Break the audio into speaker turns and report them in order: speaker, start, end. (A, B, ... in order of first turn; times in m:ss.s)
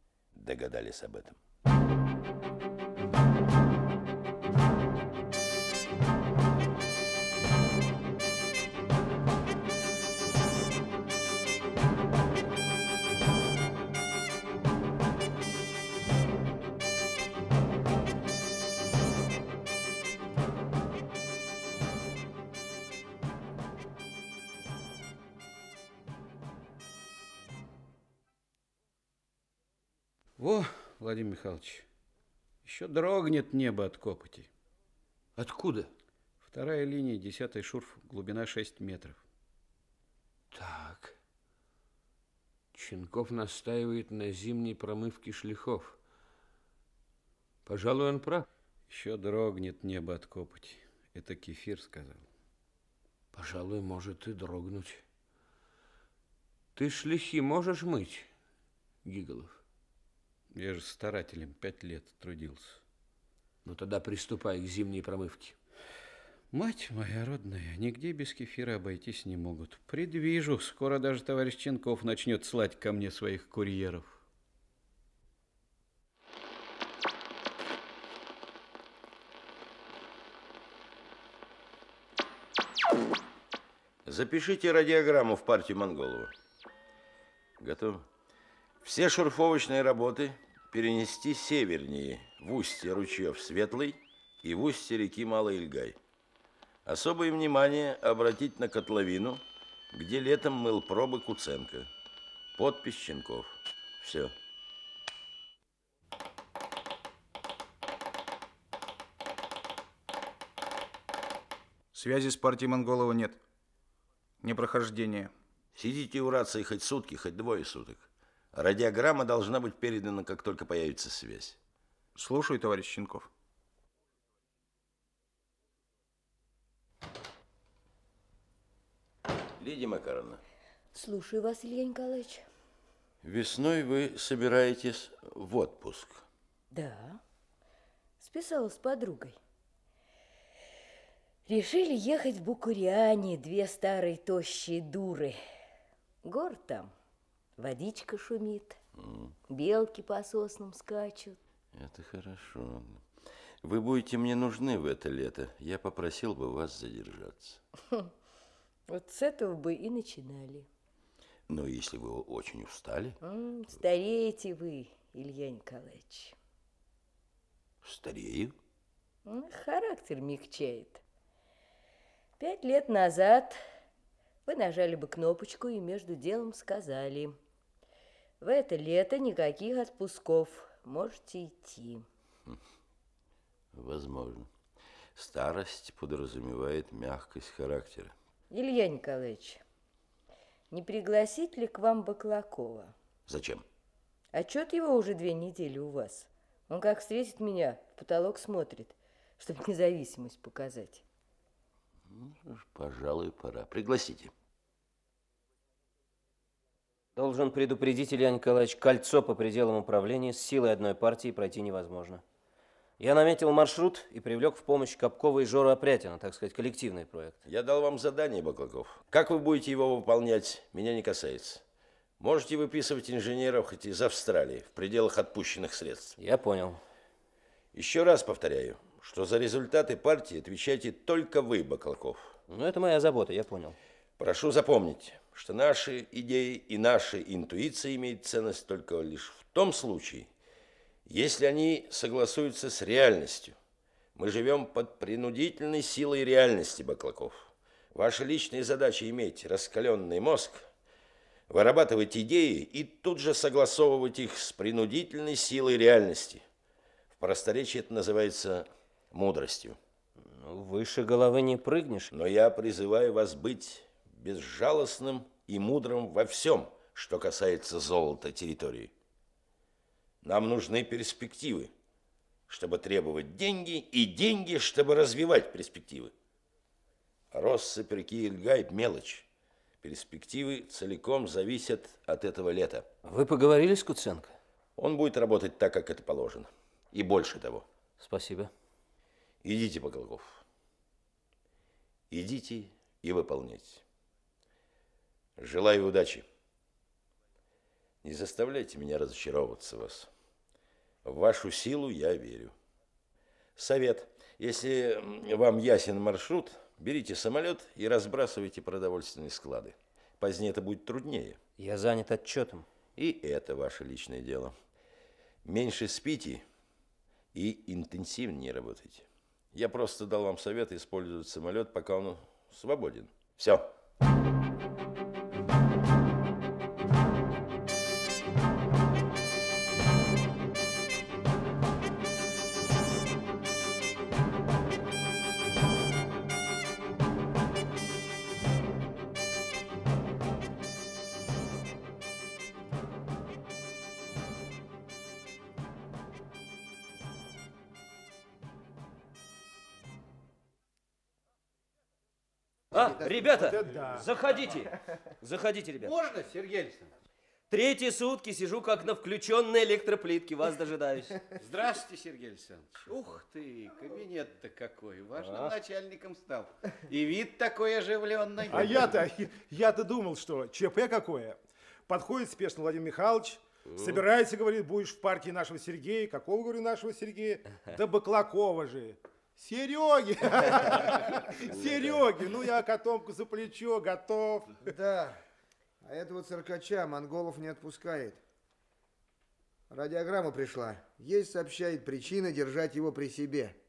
0:00.3-0:01.4 A
0:30.4-0:31.9 B
0:32.6-0:34.5 B
0:35.4-0:35.9 C
0:36.4-0:39.2 B
0:40.5-0:41.1 C
0:42.7-0:46.0 C
0:47.6-0:48.5 C
0:48.9-0:52.3 B
0:53.3-0:55.0 C
0:56.7-0:58.3 C
0:59.0-0:59.6 C
1:00.5-1:02.8 B
1:03.6-1:05.6 C
1:06.5-1:14.2 B
1:24.0-1:26.3 A
1:27.6-1:28.0 A
1:28.8-1:36.0 A
1:36.8-1:41.9 A
1:42.6-1:44.3 A
1:51.9-1:53.4 D
1:54.4-1:55.3 D
1:55.7-2:01.6 A
2:02.2-2:03.3 D
2:09.6-2:10.4 A
2:10.9-2:12.4 E
2:13.2-2:16.2 A
2:16.7-2:17.2 E
2:18.2-2:19.4 E
2:21.5-2:25.4 E
2:26.2-2:26.9 E
2:27.6-2:28.8 E
2:29.0-2:29.4 A
2:29.5-2:31.4 E
2:31.7-2:33.0 A
2:33.6-2:37.6 A
2:38.9-2:40.7 E
2:41.5-2:43.2 A
2:43.2-2:46.4 E
2:47.8-2:48.5 A
2:49.2-2:51.0 E
2:52.4-2:53.6 E
2:54.4-2:57.4 E
2:58.4-3:02.0 E
3:03.7-3:04.5 A
3:05.1-3:08.1 A
3:08.5-3:09.6 E
3:10.7-3:12.9 E
3:13.3-3:13.6 A
3:14.3-3:21.0 E
3:22.1-3:24.3 A
3:27.2-3:32.2 F
3:33.0-3:37.4 F
3:37.5-3:41.6 A
3:42.2-3:46.2 A
3:46.2-3:46.8 F
3:47.7-3:52.4 A
3:52.5-3:53.8 F
3:54.2-4:00.3 A
4:01.0-4:03.6 A
4:04.2-4:10.7 A
4:11.5-4:16.4 A
4:17.2-4:19.8 A
4:20.2-4:22.1 F
4:22.1-4:28.9 A
4:30.2-4:31.7 A
4:32.5-4:36.1 A
4:37.3-4:39.2 A
4:39.8-4:42.9 A
4:43.0-4:44.3 F
4:44.8-4:47.6 A
4:48.0-4:48.5 F
4:49.4-4:50.4 A
4:52.1-4:53.8 A
4:55.4-4:56.2 A
4:58.0-5:00.1 A
5:01.0-5:02.5 A
5:03.6-5:11.4 A
5:11.6-5:12.7 F
5:13.0-5:14.5 A
5:15.4-5:16.4 A
5:17.3-5:23.7 A
5:52.7-5:55.9 F
5:52.8-5:54.1 G
5:55.8-5:56.9 B
5:57.5-6:01.2 F
6:01.4-6:09.0 B
6:05.2-6:05.5 F
6:08.5-6:24.6 G
6:13.8-6:14.0 F
6:24.6-6:25.2 H
6:25.8-6:28.2 H
6:29.7-6:33.6 H